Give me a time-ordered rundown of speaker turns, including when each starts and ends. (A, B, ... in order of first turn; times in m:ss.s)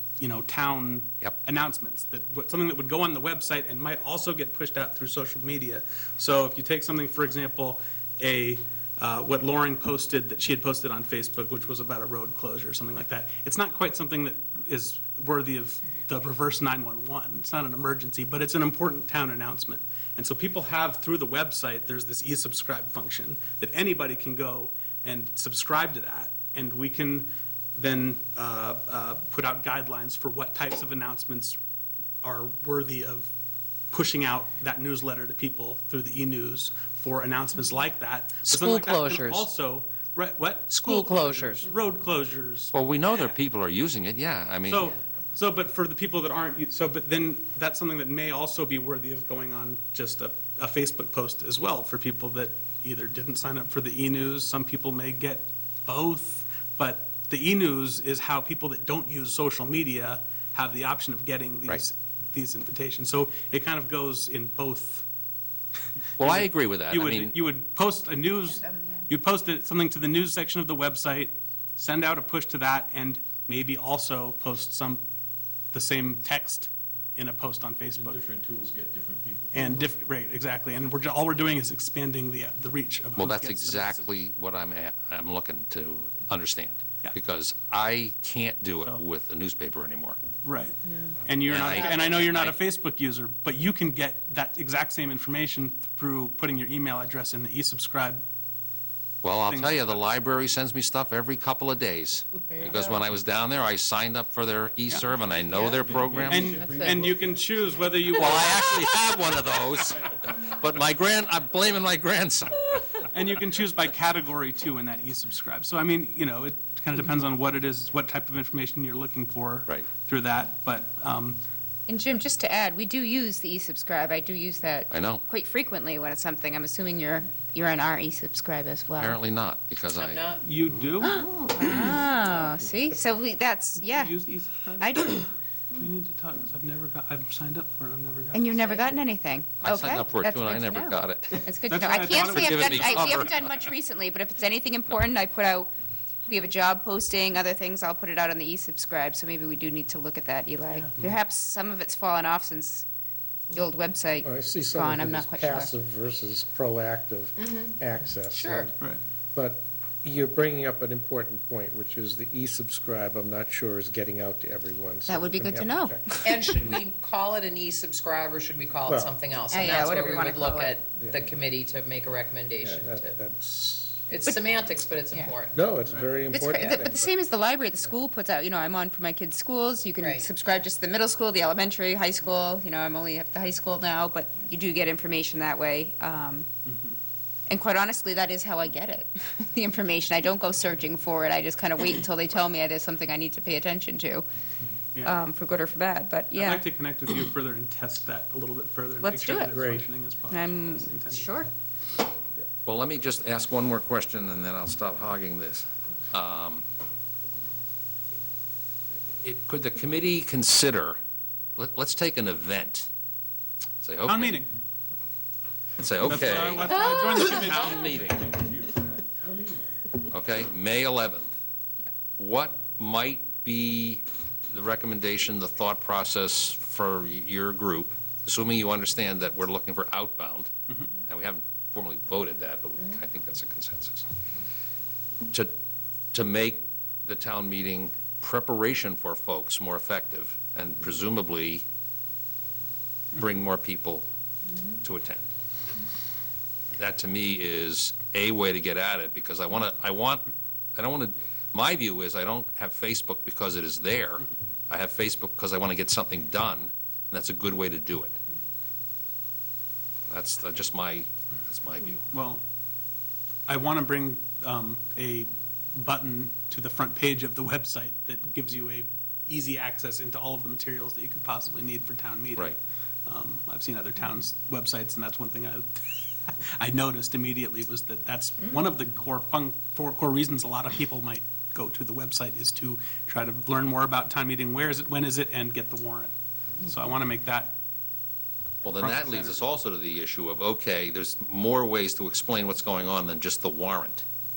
0:00.2-0:31.6 A
0:32.2-0:33.3 A
0:33.9-0:43.4 A
0:38.5-0:39.5 B
0:40.7-0:41.6 B
0:42.7-0:44.9 C
0:44.7-1:05.0 A
1:06.2-1:07.4 C
1:06.2-1:15.0 A
1:08.6-1:09.0 D
1:15.7-1:18.2 A
1:18.0-1:19.9 E
1:19.5-1:24.1 A
1:23.2-1:30.2 C
1:30.4-1:38.2 A
1:31.5-1:32.6 C
1:39.2-1:46.6 C
1:39.5-1:39.9 A
1:42.5-1:42.8 B
1:45.8-1:47.4 E
1:46.3-1:48.8 A
1:48.1-1:53.0 C
1:53.1-2:01.4 A
2:01.9-2:09.2 D
2:04.9-2:05.2 C
2:09.0-2:10.2 C
2:09.9-2:10.4 B
2:10.4-2:11.3 A
2:11.0-2:14.2 D
2:13.9-2:18.8 A
2:14.8-2:15.3 D
2:18.3-2:25.7 D
2:19.6-2:23.6 C
2:21.7-2:23.2 A
2:26.3-2:32.8 D
2:33.5-2:35.7 D
2:34.2-2:38.8 F
2:37.4-2:37.8 B
2:38.3-2:38.7 B
2:39.3-2:46.8 F
2:45.1-2:46.7 D
2:46.2-2:53.2 B
2:48.8-2:49.2 F
2:49.5-2:50.8 D
2:51.0-2:51.3 F
2:52.6-2:54.1 F
2:54.1-2:55.6 B
2:55.5-2:57.3 F
2:56.3-2:56.9 B
2:56.5-3:06.5 D
3:00.0-3:00.3 B
3:07.5-3:14.2 D
3:15.0-3:16.7 D
3:16.4-3:21.3 A
3:19.0-3:19.5 D
3:19.5-3:19.8 F
3:20.3-3:21.5 D
3:22.7-3:26.6 C
3:29.2-3:31.0 C
3:31.6-3:32.9 C
3:33.8-3:34.4 C
3:34.0-3:34.5 A
3:35.8-3:38.3 C
3:36.1-3:38.0 A
3:37.6-3:39.6 E
3:40.1-3:41.3 C
3:42.2-3:50.5 C
3:51.1-3:54.1 C
3:56.1-4:01.6 C
4:03.2-4:04.1 C
4:04.8-4:05.2 C
4:06.8-4:18.2 C
4:20.1-4:22.0 C
4:22.1-4:22.4 A
4:23.5-4:32.5 A
4:33.1-4:47.6 A
4:48.6-4:54.0 C
4:48.8-4:49.4 A